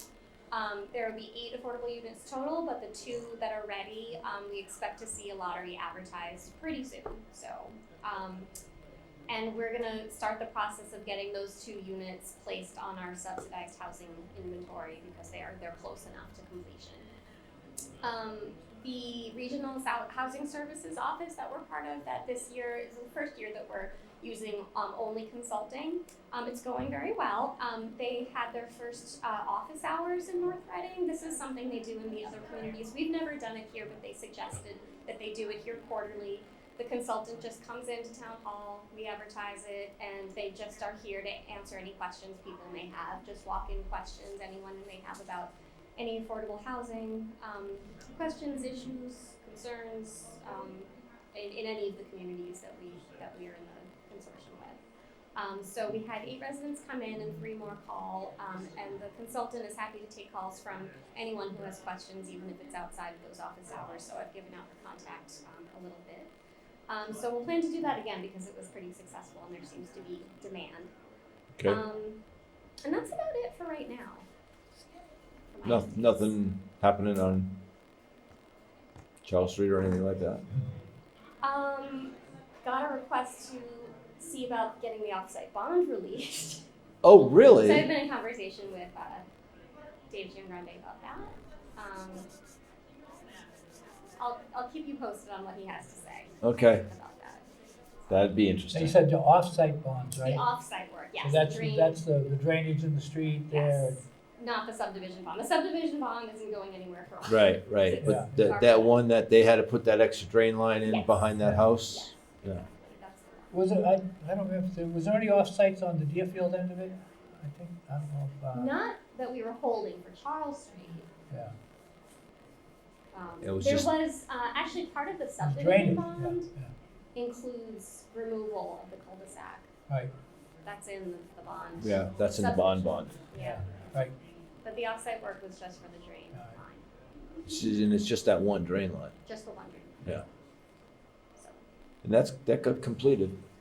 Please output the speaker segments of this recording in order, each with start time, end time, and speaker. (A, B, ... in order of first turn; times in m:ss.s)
0:00.5-0:08.5 A
0:09.3-0:17.1 A
0:18.0-0:54.8 A
0:55.4-1:06.3 A
1:06.9-1:10.9 A
1:11.6-1:12.2 A
1:12.8-1:14.3 A
1:15.5-1:16.3 A
1:15.6-1:17.5 B
1:19.2-1:20.4 B
1:21.4-1:26.6 A
1:27.0-1:27.9 B
1:27.1-1:29.2 A
1:30.1-1:32.3 A
1:34.2-1:37.4 A
1:36.4-1:36.8 B
1:38.1-1:38.9 B
1:38.7-1:40.4 C
1:40.2-1:42.0 A
1:41.2-1:44.0 C
1:43.5-1:49.0 A
1:47.2-1:52.6 B
1:48.0-1:48.5 C
1:50.9-1:51.2 A
1:51.4-1:51.7 C
1:51.9-1:53.6 A
1:53.5-1:58.7 C
1:58.5-2:01.1 A
2:03.1-2:06.5 A
2:03.4-2:03.9 B
2:05.4-2:06.7 C
2:07.2-2:09.7 A
2:10.6-2:13.7 A
2:11.8-2:13.1 B
2:13.4-2:14.1 C
2:14.6-2:16.9 A
2:16.3-2:16.6 C
2:17.5-2:19.1 B
2:19.3-2:20.2 A
2:21.4-2:21.6 A
2:22.0-2:23.4 B